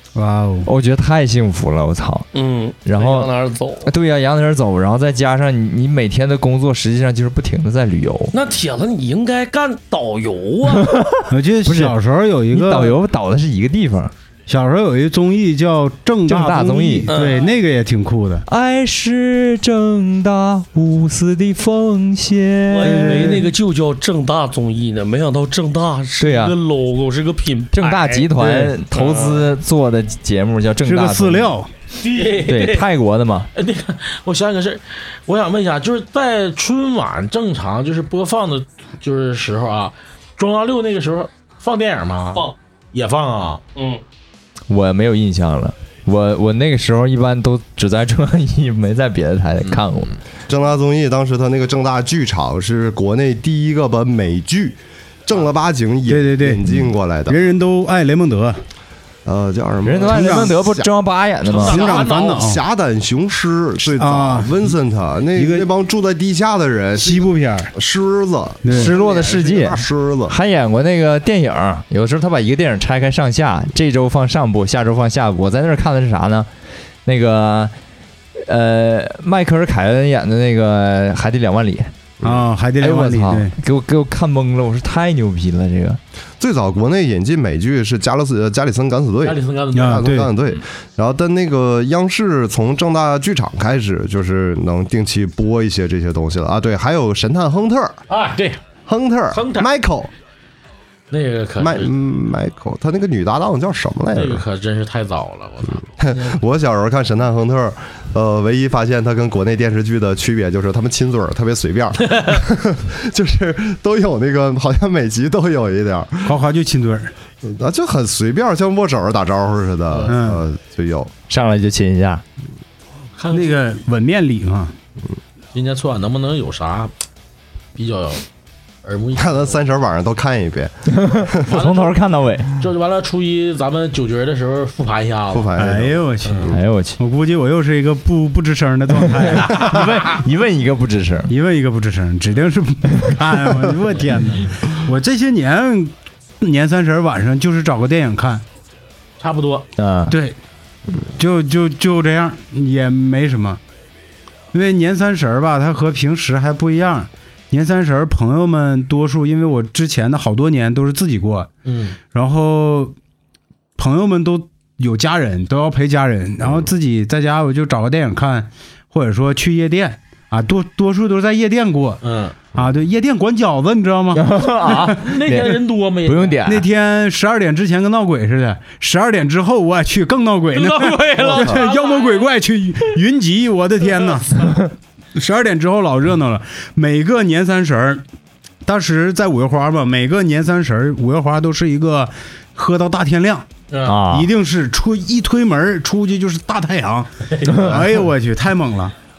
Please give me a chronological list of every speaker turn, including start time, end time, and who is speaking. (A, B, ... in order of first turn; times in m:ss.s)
0:00.2-0:00.7 A
0:00.6-0:02.3 B
0:02.3-0:03.9 C
0:02.8-0:03.3 B
0:03.8-0:08.3 B
0:08.3-0:10.9 C
0:10.7-0:11.9 B
0:11.3-0:13.0 A
0:12.5-0:14.1 B
0:14.5-0:18.4 A
0:16.3-0:17.1 B
0:17.1-0:17.5 C
0:18.5-0:23.4 B
0:22.7-0:28.4 C
0:22.8-0:23.5 A
0:26.2-0:26.6 B
0:27.7-0:31.5 B
0:28.4-0:28.7 A
0:29.0-0:29.4 C
0:30.8-0:31.7 A
0:32.0-0:32.9 D
0:32.3-0:33.5 B
0:33.5-0:43.6 D
0:43.7-0:44.0 C
0:44.7-0:50.1 B
0:49.6-0:50.2 D
0:50.5-0:57.4 E
0:56.1-0:58.6 A
0:59.2-1:00.9 E
0:59.8-1:01.9 B
1:00.0-1:00.5 A
1:01.4-1:02.4 D
1:01.6-1:02.6 A
1:01.7-1:10.3 E
1:04.0-1:04.7 A
1:05.4-1:05.7 A
1:07.0-1:07.7 A
1:08.6-1:08.9 A
1:08.7-1:16.5 B
1:17.0-1:17.7 B
1:18.4-1:21.9 B
1:22.2-1:23.6 A
1:22.8-1:26.0 B
1:26.4-1:38.0 E
1:29.2-1:30.5 D
1:29.7-1:30.3 A
1:38.1-1:38.6 D
1:38.9-1:40.1 E
1:39.3-1:39.7 D
1:41.1-1:41.9 D
1:41.6-1:44.4 E
1:44.1-1:46.4 D
1:45.9-1:56.3 E
1:52.1-1:52.4 D
1:56.2-1:57.1 A
1:57.4-2:01.1 E
1:59.9-2:00.2 D
2:00.1-2:00.4 A
2:01.3-2:02.2 B
2:03.2-2:03.6 D
2:03.3-2:04.7 A
2:05.5-2:06.9 D
2:07.7-2:08.2 D
2:08.8-2:09.6 D
2:09.2-2:10.7 E
2:11.0-2:12.5 B
2:11.4-2:12.0 D
2:12.6-2:15.5 D
2:15.3-2:16.6 E
2:15.6-2:20.0 A
2:16.2-2:16.5 D
2:16.5-2:17.0 B
2:19.1-2:21.3 B
2:21.3-2:28.4 A
2:29.2-2:29.7 D
2:29.8-2:30.2 B
2:30.1-2:30.4 A
2:31.0-2:33.6 A
2:34.5-2:41.5 A
2:41.6-2:42.0 D
2:42.1-2:42.9 A
2:43.8-2:52.0 A
2:52.0-2:52.3 D
2:52.5-2:55.1 A
2:54.1-2:56.7 B
2:54.6-2:56.4 D
2:56.4-3:04.6 A
3:00.5-3:02.3 D
3:01.2-3:01.6 E
3:04.0-3:04.6 D
3:05.1-3:08.0 A
3:08.6-3:13.4 A
3:13.7-3:14.0 D
3:13.8-3:14.3 B
3:14.1-3:18.9 A
3:17.3-3:17.8 D